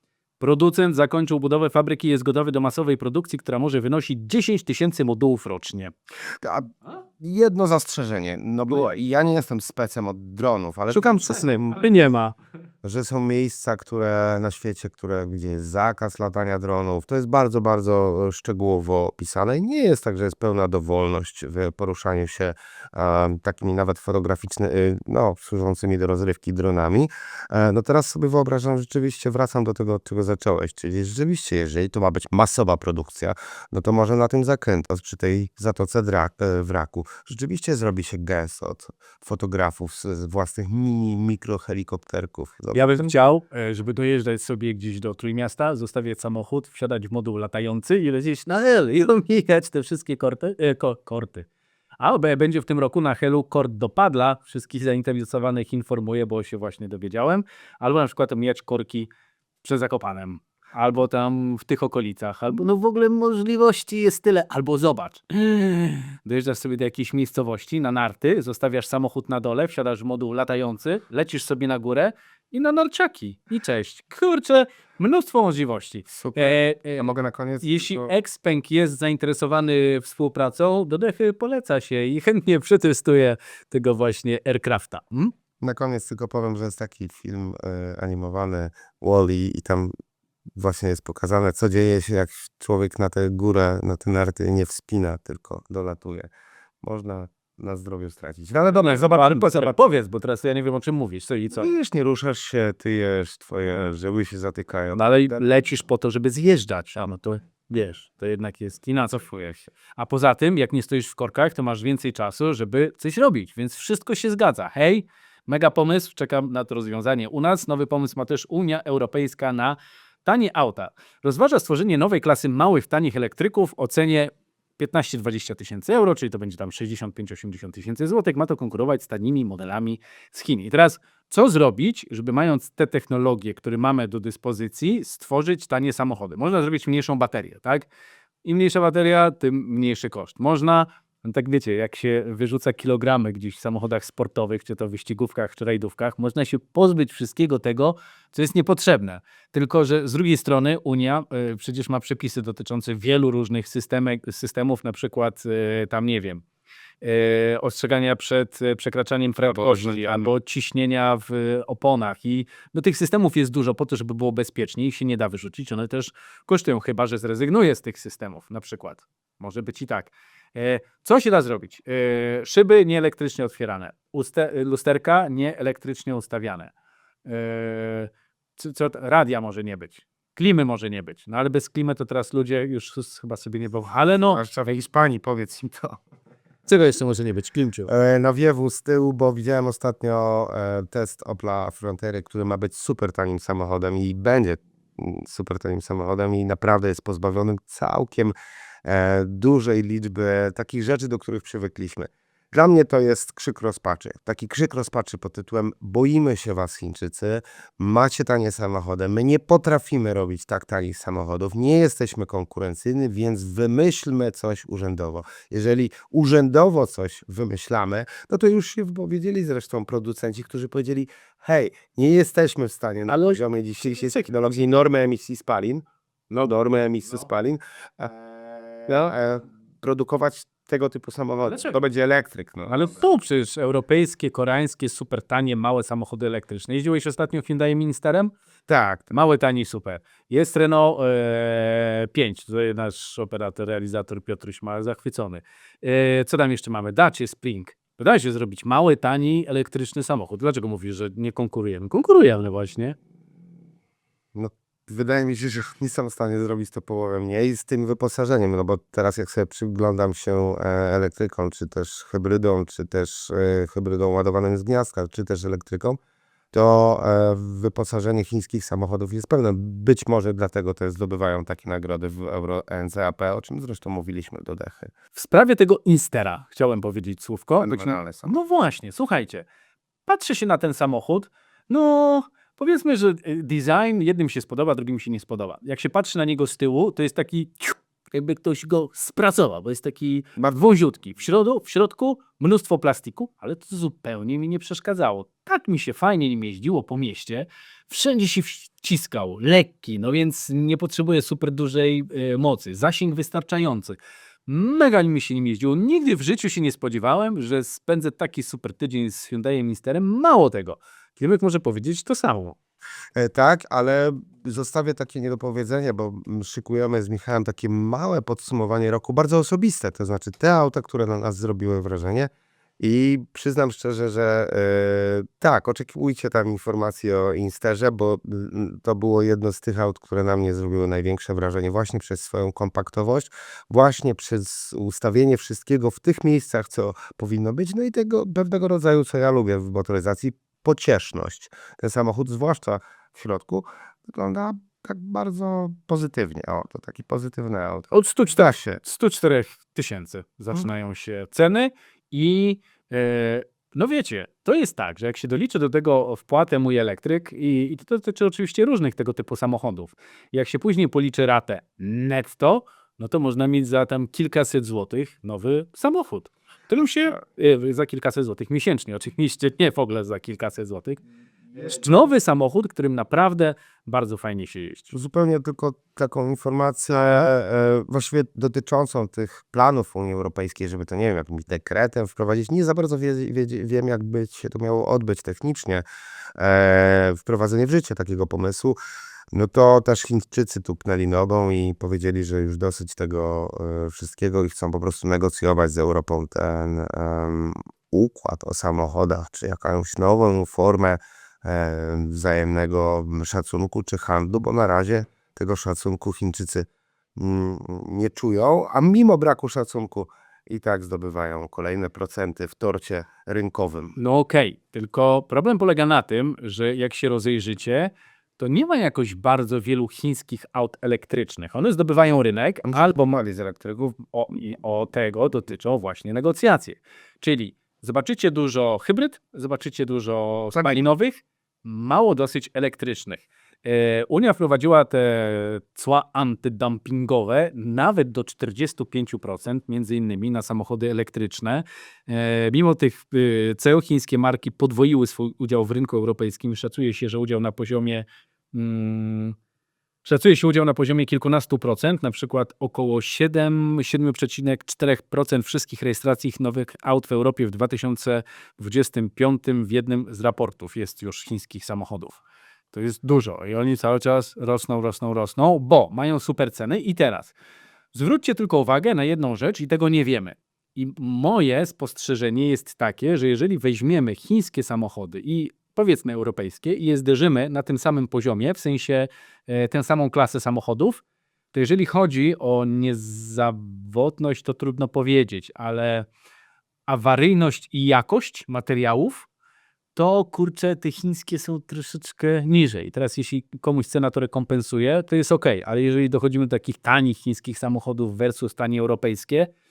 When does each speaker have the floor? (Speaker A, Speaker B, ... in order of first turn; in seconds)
Speaker A: 0.4-5.9, 10.9-12.3, 42.7-51.5, 52.0-59.1, 59.6-77.1, 77.6-85.3, 98.7-101.7, 105.0-137.9, 138.4-156.4, 157.0-176.7, 177.2-184.4, 186.7-187.9, 223.1-223.4, 231.5-231.8, 232.7-238.3, 239.1-253.0, 275.1-279.4, 280.1-312.6, 348.8-371.0, 371.6-374.9, 414.0-422.9, 424.1-449.4, 450.0-462.2, 462.7-467.3, 467.9-481.0, 481.5-486.1, 486.9-489.3, 489.9-499.5
Speaker B: 6.4-11.8, 12.8-43.1, 76.1-78.1, 85.6-89.9, 90.5-96.3, 96.8-99.7, 101.5-105.5, 159.5-160.3, 184.3-186.0, 187.9-198.3, 198.8-228.2, 228.9-233.0, 238.7-239.1, 254.3-266.0, 266.5-274.9, 277.6-278.3, 313.2-348.8, 374.9-385.8, 386.4-388.8, 389.3-413.9, 422.6-424.0